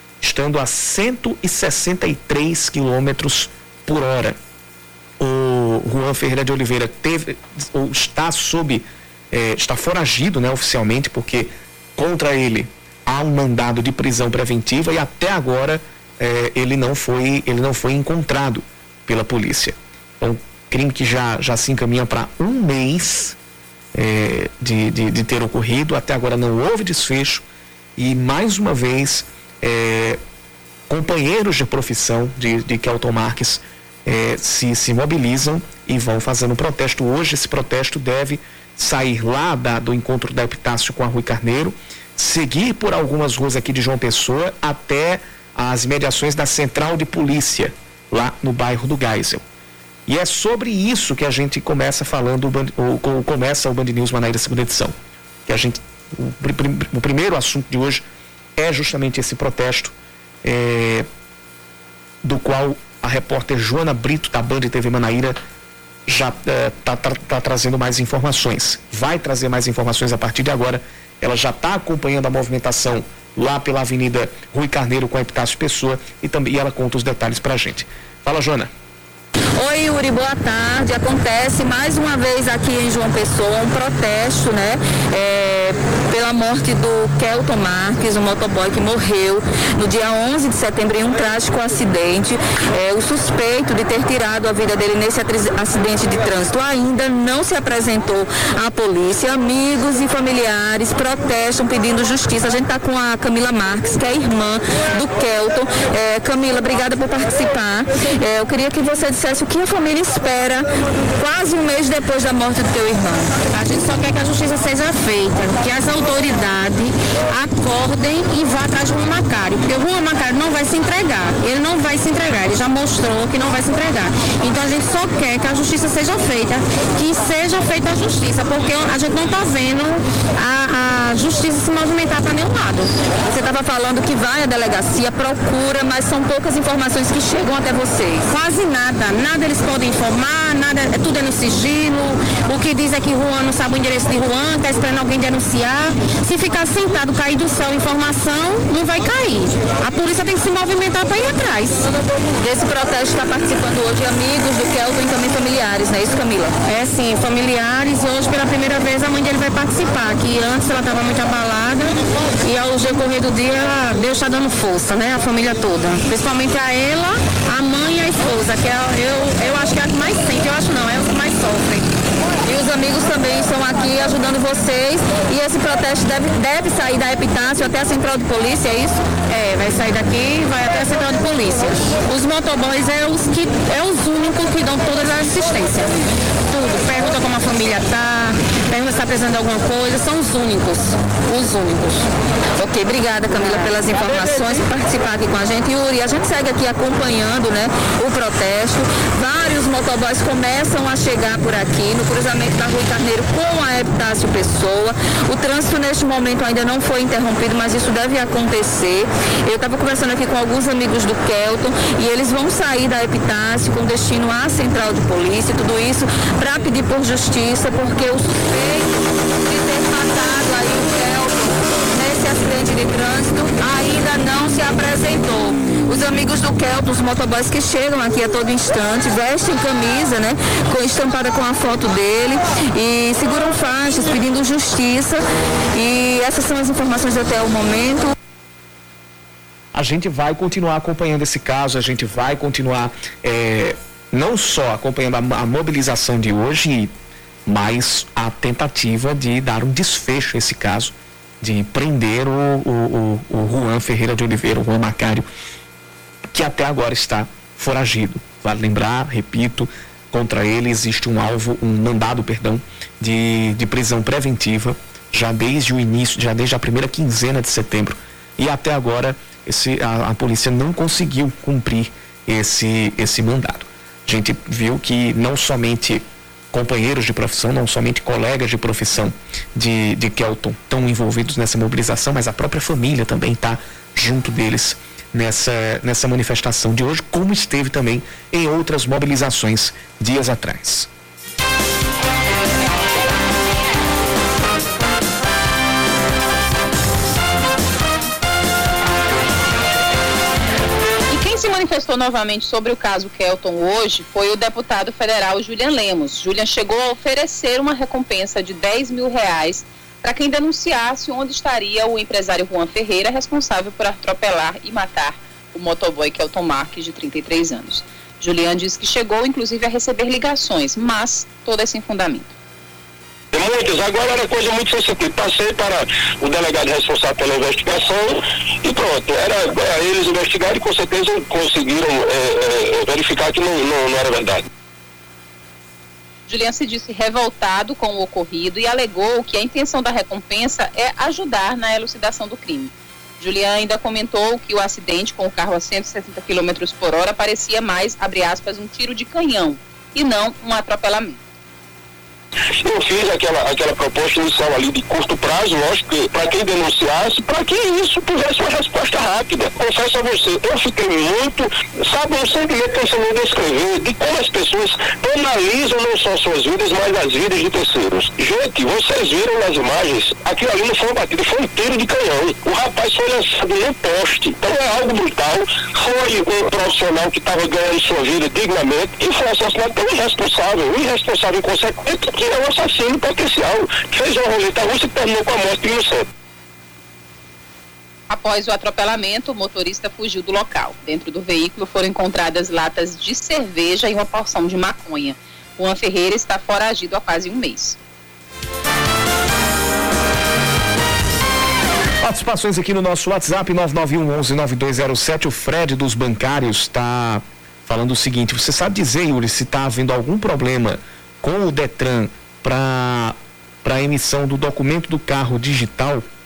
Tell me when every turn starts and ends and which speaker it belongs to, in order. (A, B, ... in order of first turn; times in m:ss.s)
0:00.2-0:04.4 A
0:05.2-0:23.4 A
0:23.9-0:27.4 A
0:28.0-0:30.2 A
0:30.9-0:49.4 A
0:50.1-0:58.0 A
0:58.6-1:01.1 A
1:02.2-1:05.4 A
1:06.1-1:18.7 A
1:19.6-1:53.4 B
1:53.4-2:12.9 C
2:13.2-2:18.3 B
2:18.3-2:31.9 C
2:32.4-2:36.6 B
2:36.6-2:51.9 C
2:52.4-2:59.0 B
2:59.3-3:12.1 C
3:12.6-3:58.1 B
3:13.3-3:13.7 C
3:59.7-4:06.9 A
4:07.4-4:15.3 A
4:16.3-4:50.9 A
5:01.1-5:22.3 D
5:23.3-5:34.4 E
5:36.3-5:51.2 D
5:52.6-6:26.1 E
6:28.1-6:37.8 D
6:42.0-6:56.0 A